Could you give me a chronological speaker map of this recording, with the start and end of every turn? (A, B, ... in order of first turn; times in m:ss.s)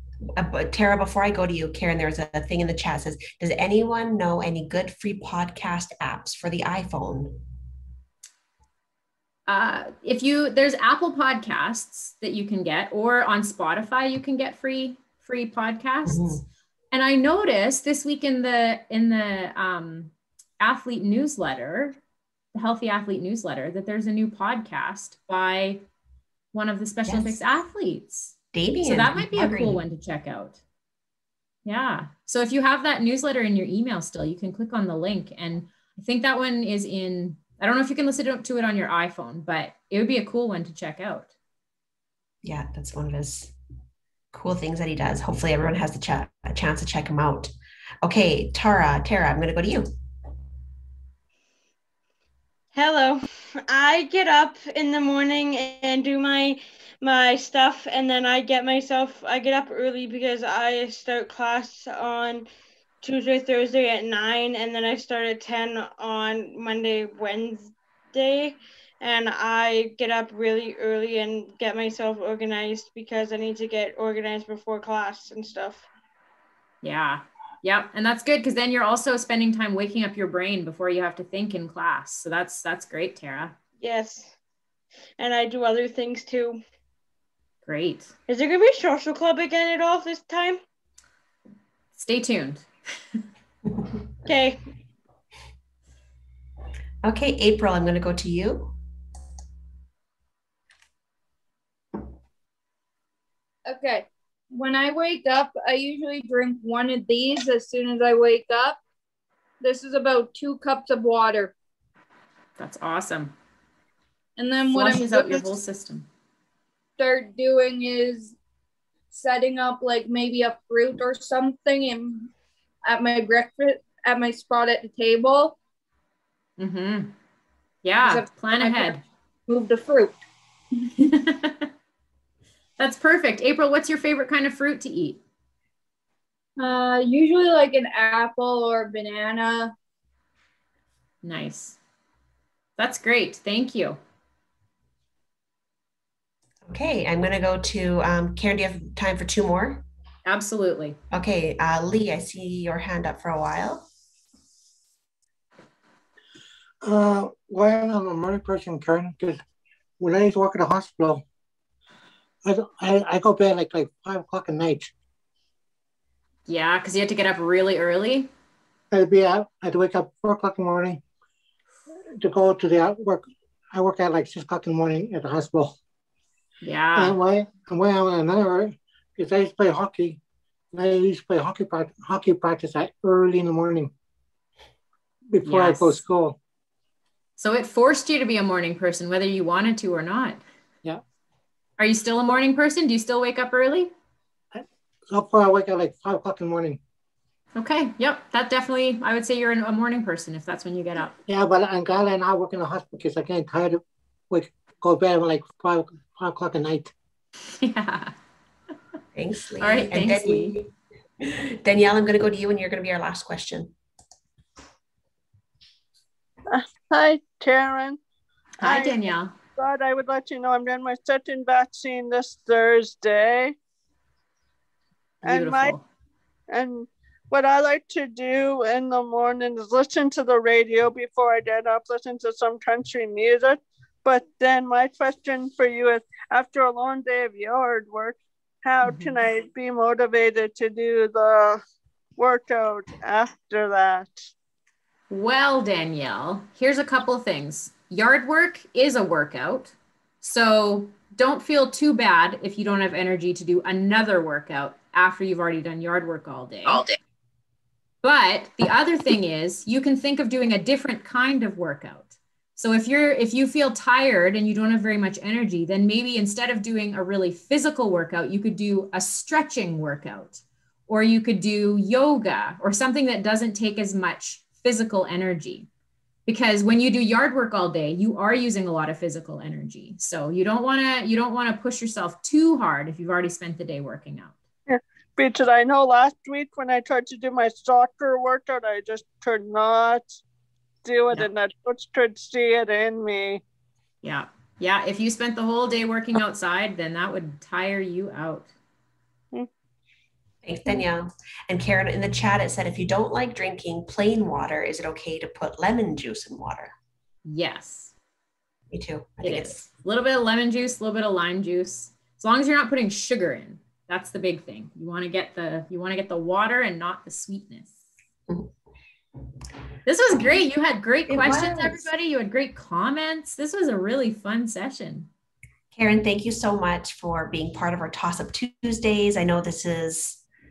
0:00.4-0:07.4 A
0:09.5-0:16.4 B
0:16.1-0:16.4 A
0:16.9-0:22.0 B
0:22.5-0:25.8 B
0:26.5-0:30.6 B
0:27.1-0:27.4 A
0:28.5-0:29.8 A
0:31.7-0:41.3 B
0:42.4-0:43.6 A
0:44.3-0:49.9 A
0:52.7-1:02.5 C
1:03.0-1:15.9 C
1:16.8-1:23.6 B
1:23.8-1:24.4 C
1:25.2-1:26.6 C
1:27.7-1:28.1 B
1:28.3-1:30.6 C
1:31.9-1:32.7 B
1:34.3-1:34.6 C
1:37.0-1:38.8 A
1:43.7-1:48.8 D
1:49.6-1:51.5 D
1:52.6-1:53.4 B
1:54.4-1:55.5 D
1:54.7-1:56.1 B
1:57.0-1:58.4 D
1:59.1-2:02.3 D
2:02.8-2:05.6 D
2:06.6-2:07.1 B
2:07.8-2:09.0 B
2:08.0-2:10.2 D
2:10.9-2:11.7 B
2:12.8-2:15.2 B
2:16.6-2:19.7 D
2:21.2-2:21.8 B
2:22.8-2:24.0 B
2:26.6-2:29.8 A
2:30.2-2:31.0 B
2:31.1-2:33.9 A
2:36.8-2:39.4 E
2:40.0-2:41.2 E
2:42.4-2:44.9 E
2:46.5-2:48.3 B
2:48.9-2:51.0 E
2:51.9-2:55.8 E
2:56.6-2:57.2 B
2:57.0-3:00.2 E
3:00.7-3:03.9 E
3:05.3-3:06.4 E
3:05.4-3:06.0 B
3:07.4-3:10.4 B
3:11.8-3:13.9 B
3:14.5-3:16.8 E
3:17.6-3:21.2 B
3:21.3-3:26.9 E
3:27.6-3:28.1 B
3:29.2-3:30.7 A
3:29.6-3:30.6 B
3:31.2-3:33.7 A
3:36.5-3:38.0 F
3:38.6-3:39.3 B
3:38.6-3:39.0 F
3:39.6-3:43.6 F
3:45.2-3:45.8 B
3:45.2-3:45.8 F
3:46.5-4:01.6 F
3:58.8-3:59.2 B
4:02.2-4:04.2 F
4:05.1-4:16.8 B
4:18.0-4:35.7 B
4:36.3-4:44.4 B
4:44.7-4:50.2 F
4:50.8-4:53.4 F
4:54.0-4:58.5 B
5:00.4-5:06.7 A
5:07.3-5:07.9 B
5:08.7-5:09.6 A
5:09.2-5:17.8 B
5:19.9-5:25.1 B
5:21.1-5:21.9 A
5:25.7-5:30.2 A